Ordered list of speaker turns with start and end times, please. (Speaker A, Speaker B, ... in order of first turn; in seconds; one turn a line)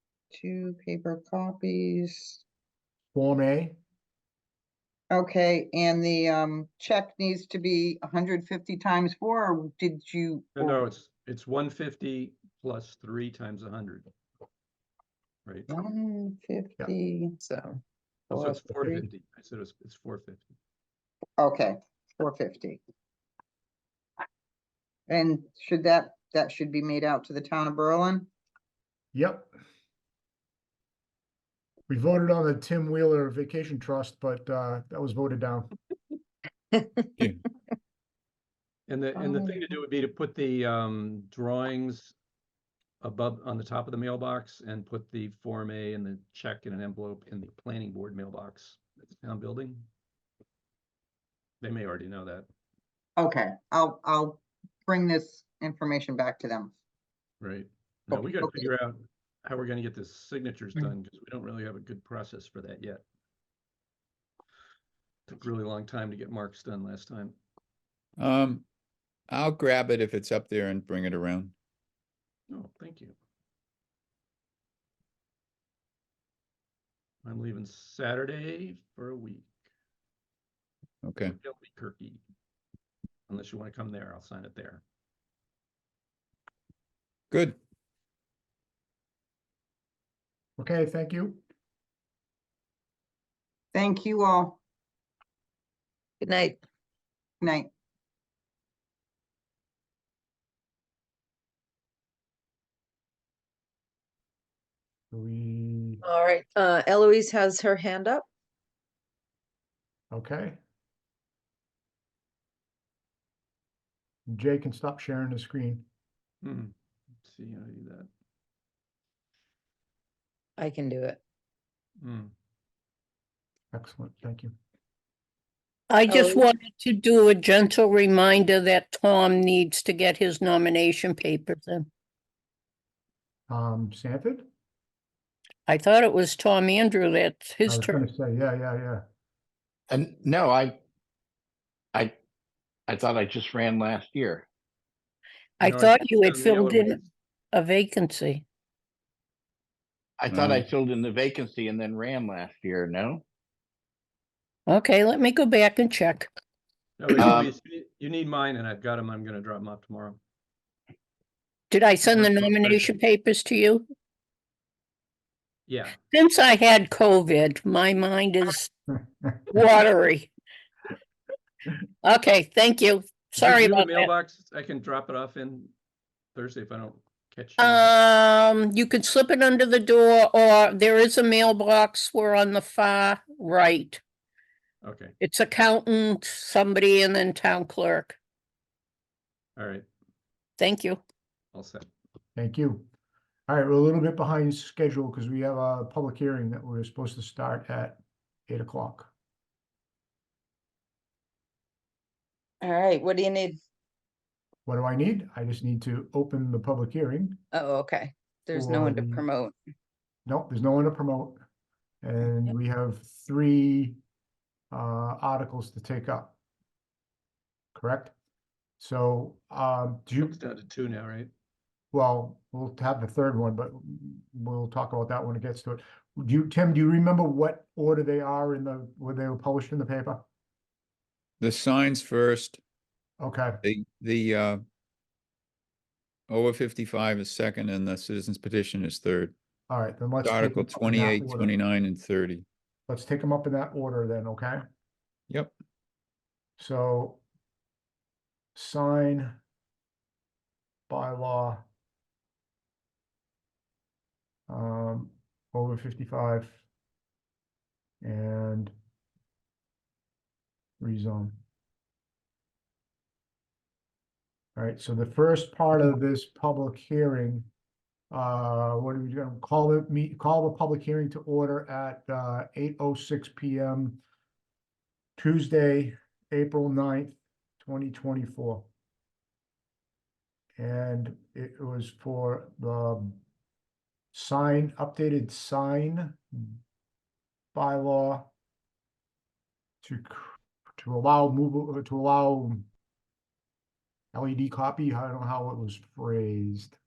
Speaker A: 0.3-2.4
Speaker B: 3.1-3.8
Speaker A: 5.1-10.8
Speaker C: 10.6-14.1
Speaker A: 15.7-17.4
Speaker A: 18.3-19.0
Speaker C: 18.3-20.5
Speaker A: 21.4-22.8
Speaker A: 25.1-28.3
Speaker B: 29.1-29.5
Speaker B: 31.9-35.7
Speaker C: 38.9-42.1
Speaker A: 39.2-39.6
Speaker C: 43.0-49.9
Speaker C: 51.6-52.5
Speaker A: 53.2-56.7
Speaker C: 57.4-63.0
Speaker A: 58.1-58.7
Speaker C: 65.3-67.3
Speaker D: 68.2-68.6
Speaker D: 69.3-71.5
Speaker C: 72.5-73.1
Speaker C: 77.2-79.5
Speaker D: 81.0-81.3
Speaker C: 81.4-82.2
Speaker C: 83.3-84.8
Speaker D: 87.3-87.6
Speaker B: 90.6-91.4
Speaker A: 93.7-94.6
Speaker E: 96.2-96.5
Speaker A: 97.4-97.7
Speaker B: 105.1-106.0
Speaker E: 106.1-108.2
Speaker B: 110.1-110.6
Speaker B: 114.3-115.8
Speaker C: 116.4-116.7
Speaker C: 117.2-118.1
Speaker E: 120.6-121.2
Speaker C: 122.0-122.3
Speaker B: 123.7-124.5
Speaker F: 125.9-131.8
Speaker E: 126.1-126.4
Speaker B: 133.5-134.4
Speaker F: 135.7-138.0
Speaker B: 137.7-139.0
Speaker G: 139.9-140.8
Speaker G: 142.9-144.4
Speaker F: 145.6-146.9
Speaker C: 145.6-147.0
Speaker F: 147.5-148.4
Speaker G: 150.2-153.2
Speaker D: 150.3-150.6
Speaker F: 154.7-156.2
Speaker C: 157.0-160.2
Speaker G: 157.2-157.5
Speaker F: 161.7-163.8
Speaker C: 162.1-162.9
Speaker C: 165.7-166.0
Speaker F: 166.1-168.7
Speaker F: 169.5-170.3
Speaker F: 172.0-173.9
Speaker C: 173.4-175.7
Speaker C: 176.3-177.9
Speaker F: 177.6-184.0
Speaker C: 184.8-185.1
Speaker F: 185.2-188.2
Speaker C: 189.6-189.8
Speaker F: 190.6-191.0
Speaker C: 191.5-191.9
Speaker B: 192.3-192.9
Speaker B: 193.5-199.1
Speaker E: 202.6-203.6
Speaker B: 204.7-207.4
Speaker E: 207.6-209.5
Speaker B: 208.5-209.2
Speaker B: 210.2-211.4
Speaker B: 212.0-214.0
Speaker B: 214.7-216.3
Speaker B: 217.7-218.1
Speaker B: 218.8-220.4
Speaker C: 220.2-221.3
Speaker B: 221.9-230.2
Speaker D: 231.4-232.6
Speaker B: 233.2-233.6
Speaker D: 233.6-234.6
Speaker D: 236.3-239.3
Speaker B: 239.7-241.5
Speaker D: 240.2-242.4
Speaker B: 242.9-244.6
Speaker B: 246.6-247.2
Speaker B: 248.5-249.3
Speaker B: 250.9-251.6
Speaker B: 254.5-256.6
Speaker B: 258.0-258.7
Speaker B: 260.8-261.4
Speaker B: 264.6-267.5
Speaker B: 268.1-274.0
Speaker B: 275.2-278.7
Speaker B: 280.6-283.2
Speaker B: 284.1-286.6
Speaker B: 287.5-288.3
Speaker B: 289.8-292.7
Speaker B: 294.1-296.8